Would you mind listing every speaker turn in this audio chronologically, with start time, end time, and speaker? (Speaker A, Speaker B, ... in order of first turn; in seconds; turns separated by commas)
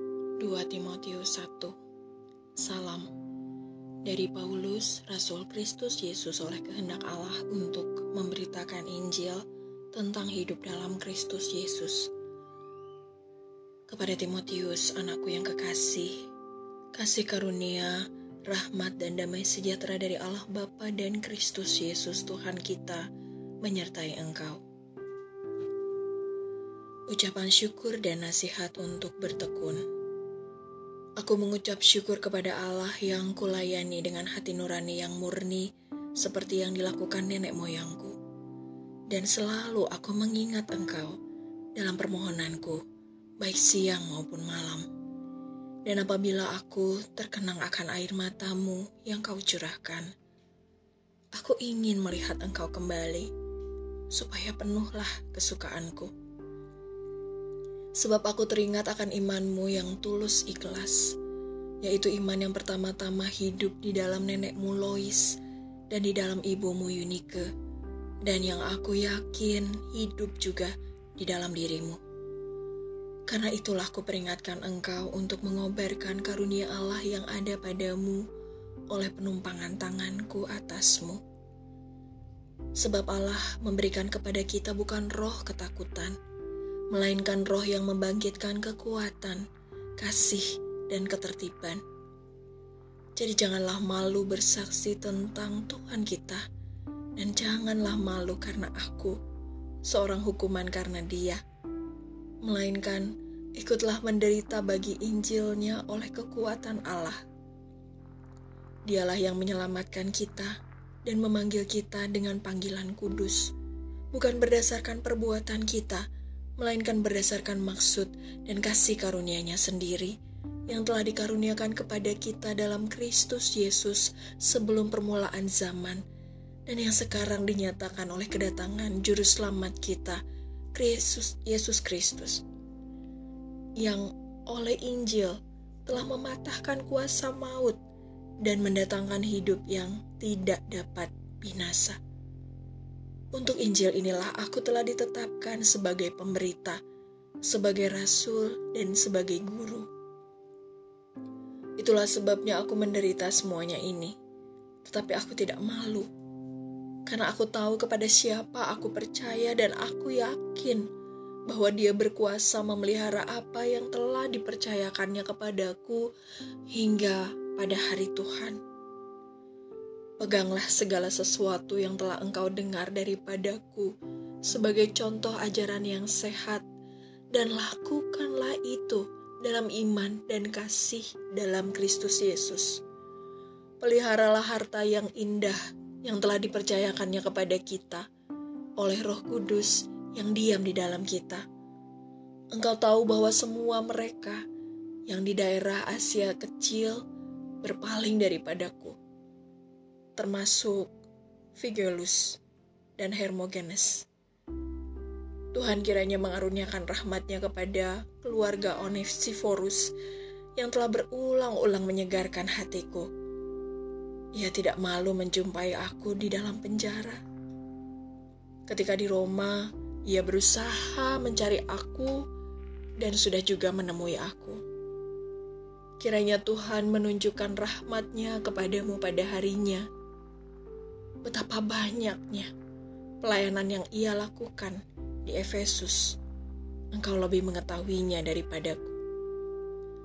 Speaker A: 0.4-1.7, Speaker A: 2.5-3.1, Speaker A: 4.0-12.1, Speaker A: 13.9-16.2, Speaker A: 16.9-23.1, Speaker A: 23.6-24.6, Speaker A: 27.1-29.8, Speaker A: 31.2-38.1, Speaker A: 39.1-41.2, Speaker A: 41.8-42.8, Speaker A: 43.4-44.8, Speaker A: 45.9-50.1, Speaker A: 51.3-53.3, Speaker A: 54.1-56.1, Speaker A: 58.0-61.2, Speaker A: 61.8-65.4, Speaker A: 65.9-67.5, Speaker A: 68.2-72.0, Speaker A: 73.3-78.2, Speaker A: 78.9-81.2, Speaker A: 82.8-86.2, Speaker A: 86.9-89.4, Speaker A: 90.0-91.8, Speaker A: 93.2-96.4, Speaker A: 97.2-99.2, Speaker A: 99.8-101.4, Speaker A: 102.4-107.2, Speaker A: 108.9-113.5, Speaker A: 114.1-116.0, Speaker A: 116.6-120.2, Speaker A: 120.7-126.0, Speaker A: 126.7-130.2, Speaker A: 130.7-132.4, Speaker A: 133.8-137.8, Speaker A: 138.4-142.0, Speaker A: 143.3-146.8, Speaker A: 147.4-149.9, Speaker A: 151.8-154.1, Speaker A: 154.8-156.1, Speaker A: 157.1-160.8, Speaker A: 161.5-166.1, Speaker A: 166.7-168.6, Speaker A: 170.2-173.9, Speaker A: 174.4-176.6, Speaker A: 177.3-182.8, Speaker A: 183.8-188.0, Speaker A: 188.8-191.4, Speaker A: 192.5-194.4, Speaker A: 195.1-197.0, Speaker A: 197.6-199.0, Speaker A: 200.2-200.9, Speaker A: 201.5-202.4, Speaker A: 203.0-204.1, Speaker A: 205.5-209.9, Speaker A: 210.6-213.1, Speaker A: 214.3-217.2, Speaker A: 218.7-222.2, Speaker A: 223.0-224.6, Speaker A: 226.0-229.9, Speaker A: 231.2-232.5, Speaker A: 233.2-236.2, Speaker A: 236.9-238.9